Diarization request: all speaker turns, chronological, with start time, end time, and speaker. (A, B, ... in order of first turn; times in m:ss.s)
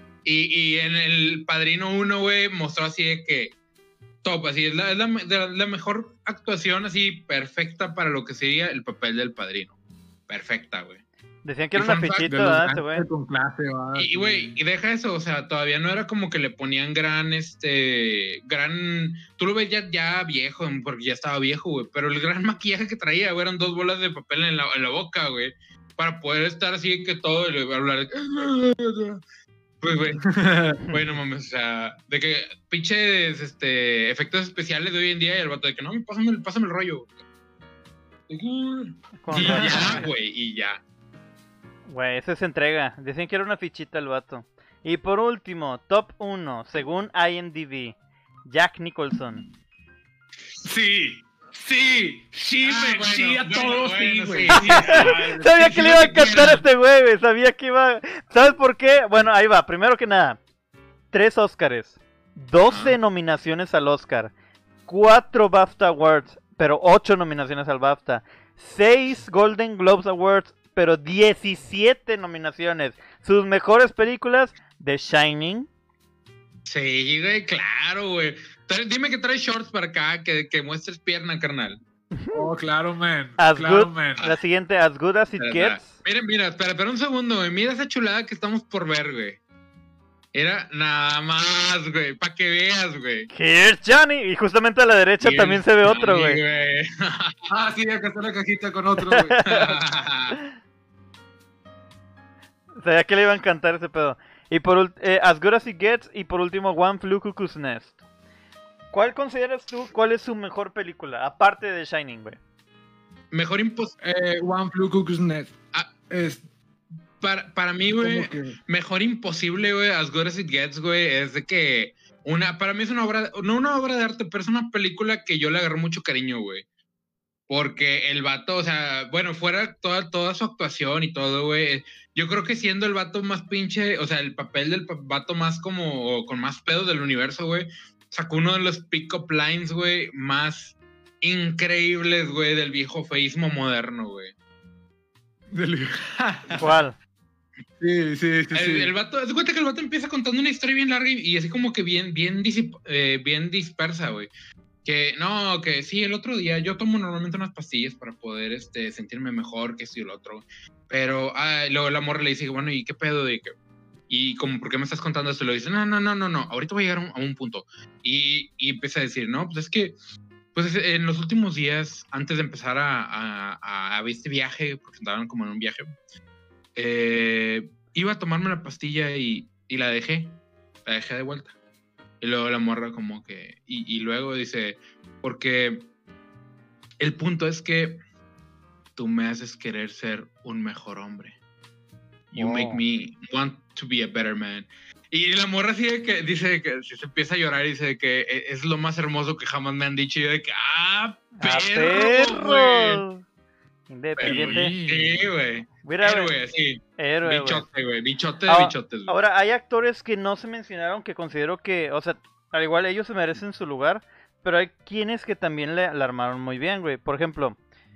0:00.2-0:03.5 A
0:04.2-0:09.7 A
0:10.3-0:11.0 A
0:11.4-0:13.1 B
0:11.7-0:12.3 A
0:12.2-0:14.6 C
0:14.0-0:29.2 A
0:29.8-0:37.1 A
0:30.2-0:30.8 C
0:38.3-0:40.8 A
0:39.2-0:40.1 B
0:39.3-0:40.1 C
0:41.9-0:49.4 B
0:50.6-0:55.6 C
0:52.6-0:56.6 A
0:54.5-1:00.4 B
1:01.1-1:04.3 B
1:02.7-1:03.0 A
1:04.9-1:15.7 B
1:16.7-1:21.8 A
1:22.1-1:22.4 B
1:22.3-1:24.2 C
1:23.4-1:25.9 B
1:25.4-1:29.4 A
1:30.3-1:33.3 A
1:33.3-1:36.4 B
1:35.2-1:37.4 A
1:37.5-1:39.5 C
1:39.0-1:39.8 B
1:39.4-1:40.4 A
1:42.8-1:48.0 B
1:48.9-1:52.4 B
1:53.3-1:53.9 A
1:54.0-1:55.6 C
1:56.1-1:56.4 C
1:57.2-2:06.6 A
1:58.0-1:58.6 C
2:07.5-2:24.3 A
2:25.5-2:26.8 C
2:26.6-2:27.0 B
2:27.8-2:28.9 C
2:28.5-2:34.3 A
2:34.8-2:43.5 A
2:44.1-2:50.0 A
2:50.5-2:55.9 A
2:56.8-3:01.5 A
3:02.2-3:05.9 A
3:07.0-3:08.0 A
3:09.0-3:11.4 A
3:12.3-3:23.0 A
3:12.3-3:12.8 B
3:21.4-3:23.2 B
3:23.9-3:24.7 B
3:24.2-3:29.2 A
3:24.2-3:25.2 C
3:25.8-3:26.3 B
3:27.0-3:27.6 B
3:28.5-3:37.6 B